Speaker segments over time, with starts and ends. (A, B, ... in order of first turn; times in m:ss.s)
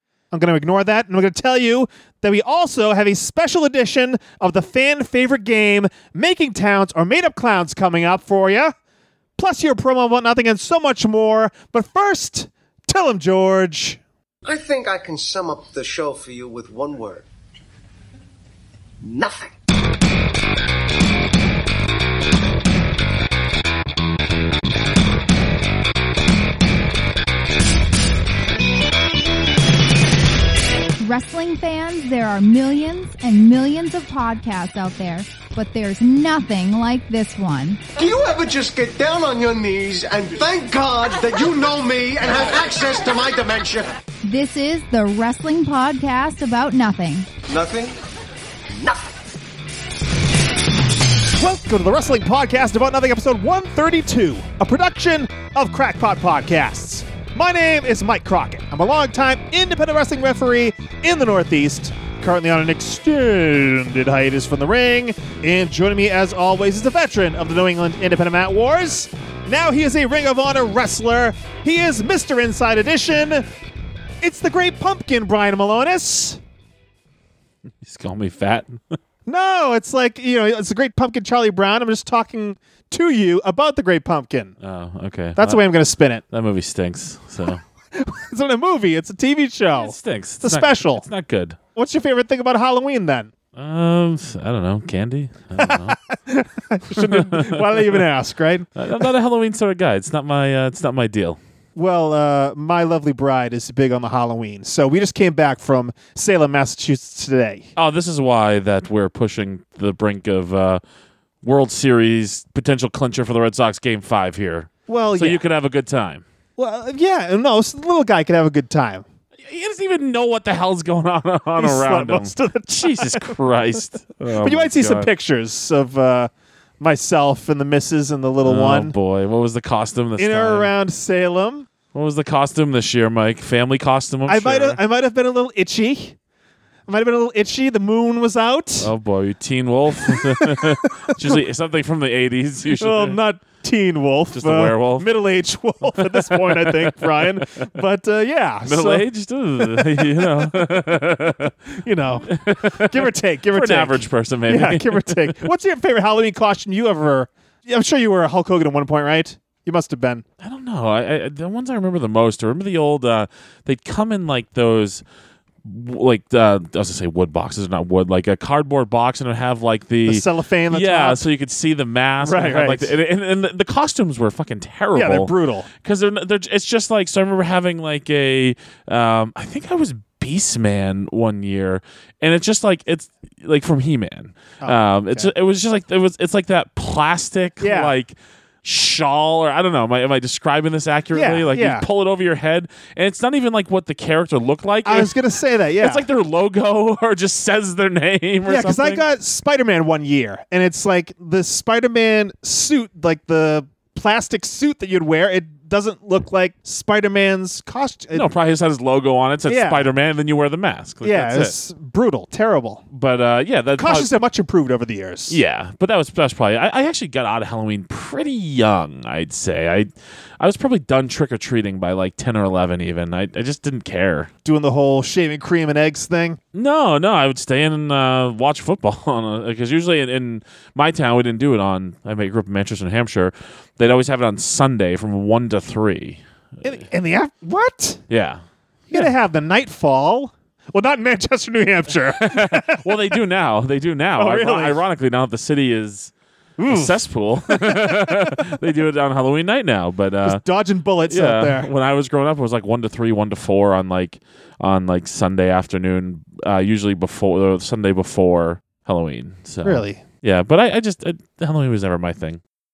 0:00.3-0:08.7 A
0:09.4-0:14.0 A
0:14.4-0:17.3 B
0:19.0-0:19.5 B
0:31.0-0:37.8 C
0:38.0-0:43.9 B
0:44.2-0:47.3 C
0:47.5-0:48.0 B
0:48.8-0:49.1 B
0:51.4-1:13.4 A
1:14.2-1:16.4 A
1:17.8-1:19.0 D
1:19.3-1:24.6 A
1:24.6-1:25.6 D
1:25.4-1:26.2 A
1:26.3-1:27.6 D
1:28.0-1:31.0 A
1:29.8-1:31.6 D
1:31.8-1:33.3 A
1:33.6-1:36.0 D
1:35.6-1:38.7 A
1:36.9-1:38.0 D
1:38.8-1:41.4 D
1:41.8-1:47.7 A
1:47.8-1:50.8 D
1:51.4-1:56.2 D
1:54.9-1:55.4 A
1:56.6-1:59.0 A
1:59.4-2:05.1 D
2:01.6-2:03.4 A
2:04.4-2:08.9 A
2:08.4-2:10.7 D
2:10.2-2:11.7 A
2:11.9-2:14.8 D
2:14.3-2:16.2 A
2:16.9-2:18.9 A
2:18.8-2:23.2 D
2:20.1-2:21.4 A
2:22.7-2:29.0 A
2:24.3-2:25.1 D
2:25.9-2:27.6 D
2:28.6-2:31.5 D
2:29.6-2:30.6 A
2:31.7-2:40.2 A
2:32.3-2:35.5 D
2:40.4-2:45.0 D
2:45.6-3:15.2 D
2:50.1-2:51.2 A
2:52.2-2:53.0 A
2:54.9-2:55.7 A
3:04.6-3:05.3 A
3:07.6-3:08.0 A
3:11.1-3:11.8 A
3:14.8-3:16.0 A
3:15.8-3:19.0 D
3:18.5-3:28.3 A
3:28.1-3:31.5 D
3:29.5-3:29.9 A
3:31.0-3:32.8 A
3:32.9-3:34.1 D
3:33.8-3:35.4 A
3:35.3-3:44.3 D
3:44.4-3:46.4 A
3:46.5-3:56.2 D
3:56.6-3:58.0 A
3:58.1-3:59.1 D
3:58.9-4:02.9 A
4:02.2-4:06.1 D
4:04.2-4:04.8 A
4:06.6-4:08.4 A
4:06.7-4:10.4 D
4:10.2-4:11.7 A
4:11.1-4:22.4 D
4:19.6-4:20.0 A